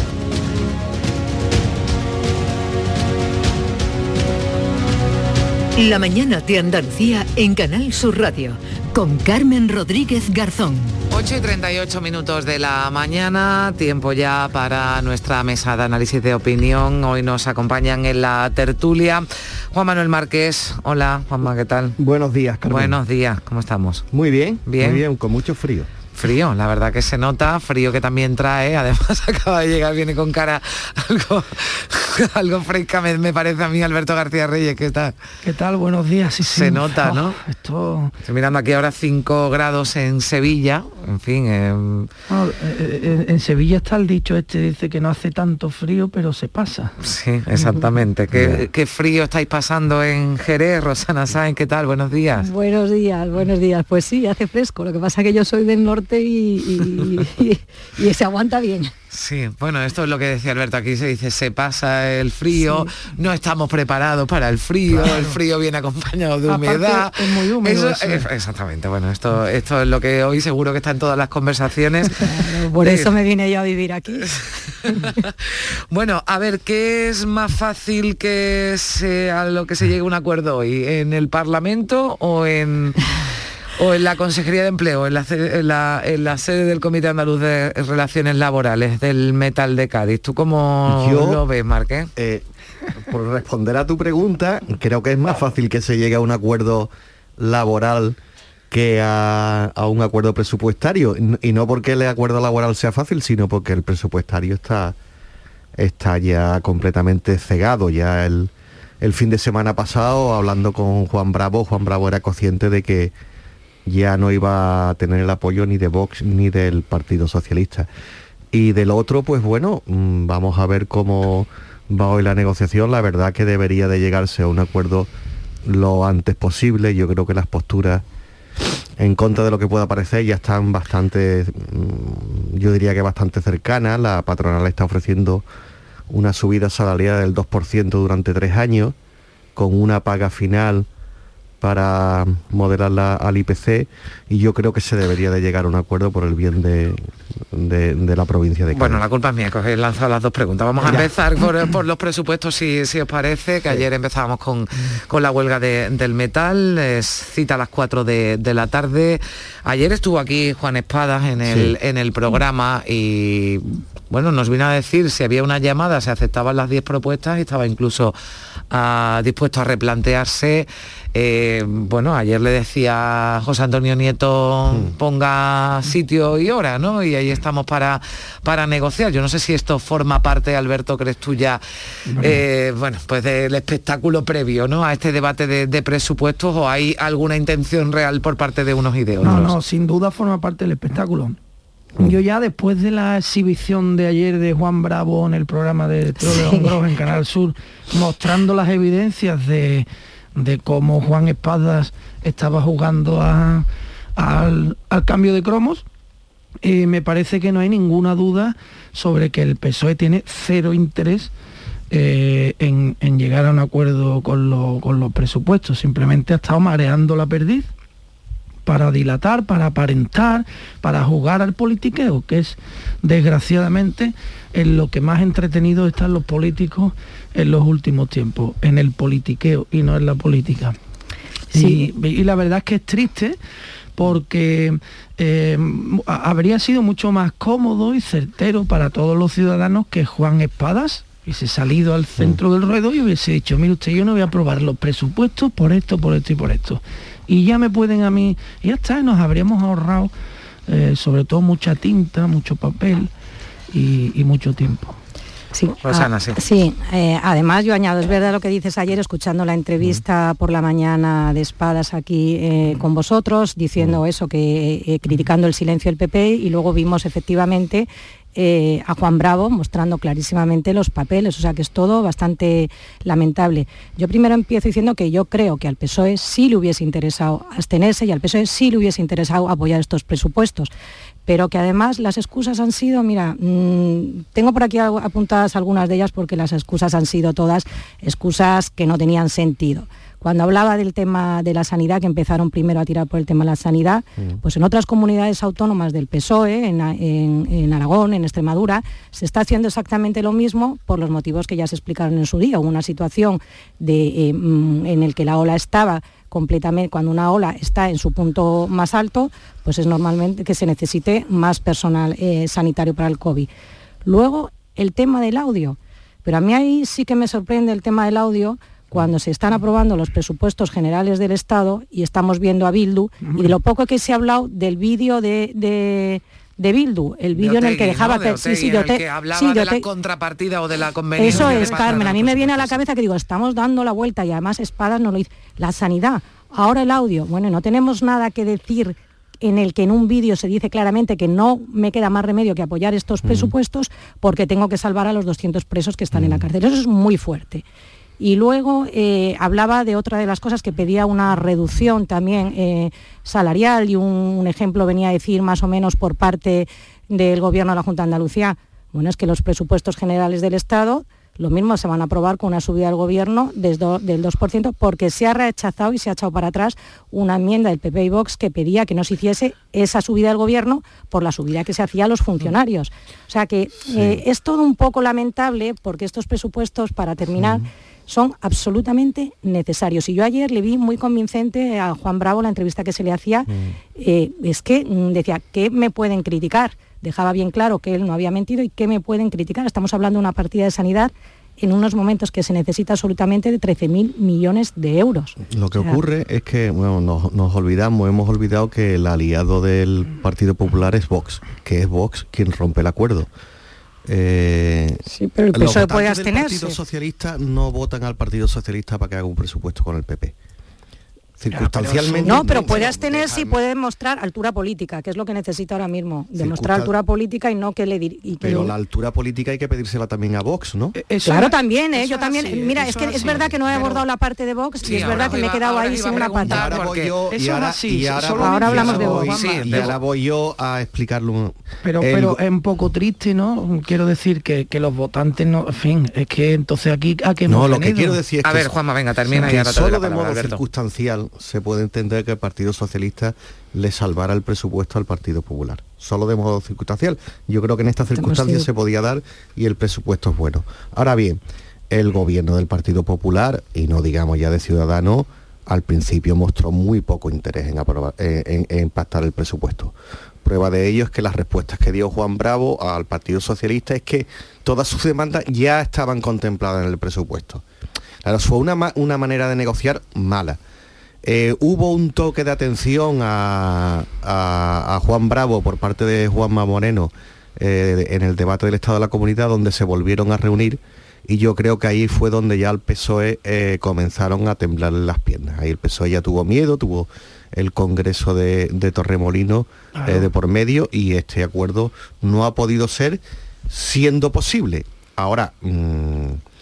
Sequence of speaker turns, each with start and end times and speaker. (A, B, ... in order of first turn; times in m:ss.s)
0:05.8-0:10.9 A
0:11.1-0:22.0 B
0:22.0-0:23.0 C
0:22.6-0:24.1 B
0:24.1-0:25.9 C
0:24.6-0:25.0 B
0:26.2-0:35.2 B
0:35.4-0:38.1 D
0:36.5-0:37.4 B
0:38.2-0:42.1 B
0:42.3-0:46.9 D
0:47.0-0:52.5 B
0:48.3-0:48.6 C
0:52.4-0:58.9 E
0:59.1-1:13.2 B
1:05.0-1:05.4 D
1:06.5-1:08.3 D
1:12.1-1:14.3 E
1:15.9-1:23.0 B
1:23.8-1:32.1 B
1:30.9-1:31.4 C
1:32.2-1:32.4 C
1:33.0-1:38.2 C
1:38.7-1:45.0 C
1:45.8-1:53.1 C
1:53.9-1:57.9 C
1:58.5-2:05.1 C
2:05.7-2:08.0 C
2:09.0-2:15.4 C
2:16.1-2:19.0 C
2:19.6-2:20.9 C
2:21.6-2:29.0 C
2:28.7-2:48.2 B
2:30.8-2:31.1 D
2:41.4-2:41.8 C
2:48.7-3:01.6 B
2:54.7-2:55.0 C
3:02.1-3:02.4 D
3:02.2-3:09.6 B
3:09.2-3:11.4 D
3:12.0-3:23.7 D
3:16.2-3:16.7 E
3:24.2-3:25.8 D
3:26.6-3:31.3 D
3:31.9-3:37.7 D
3:38.7-3:50.8 D
3:51.5-3:53.4 D
3:51.5-3:51.8 E
3:54.0-4:10.1 D
4:10.7-4:13.1 D
4:13.7-4:15.0 D
4:15.5-4:40.7 E
4:15.8-4:16.4 B
4:41.3-5:13.5 E
5:14.0-5:29.9 E
5:23.2-5:23.6 D
5:27.3-5:32.8 B
5:31.2-5:47.6 E
5:31.2-5:32.0 D
5:43.2-5:43.5 C
5:46.1-5:46.4 C
5:48.2-6:36.0 E
6:13.9-6:14.2 C
6:17.4-6:17.7 C
6:23.5-6:23.8 C
6:35.4-6:43.3 C
6:44.1-6:50.4 C
6:45.1-6:46.8 E
6:51.4-6:53.6 C
6:51.5-6:52.6 D
6:51.7-6:52.4 B
6:52.2-6:58.7 E
6:56.4-6:56.9 C
6:58.4-7:01.0 C
7:00.9-7:04.1 D
7:01.3-7:06.8 E
7:03.0-7:03.8 C
7:04.8-7:07.2 B
7:06.2-7:12.4 C
7:07.3-7:10.0 D
7:08.4-7:09.4 E
7:08.8-7:10.0 B
7:11.8-7:18.2 D
7:17.5-7:31.4 C
7:18.4-7:20.6 B
7:28.1-7:28.7 E
7:31.9-7:47.6 C
7:48.2-7:50.6 C
7:51.2-8:16.4 C
8:10.0-8:10.3 D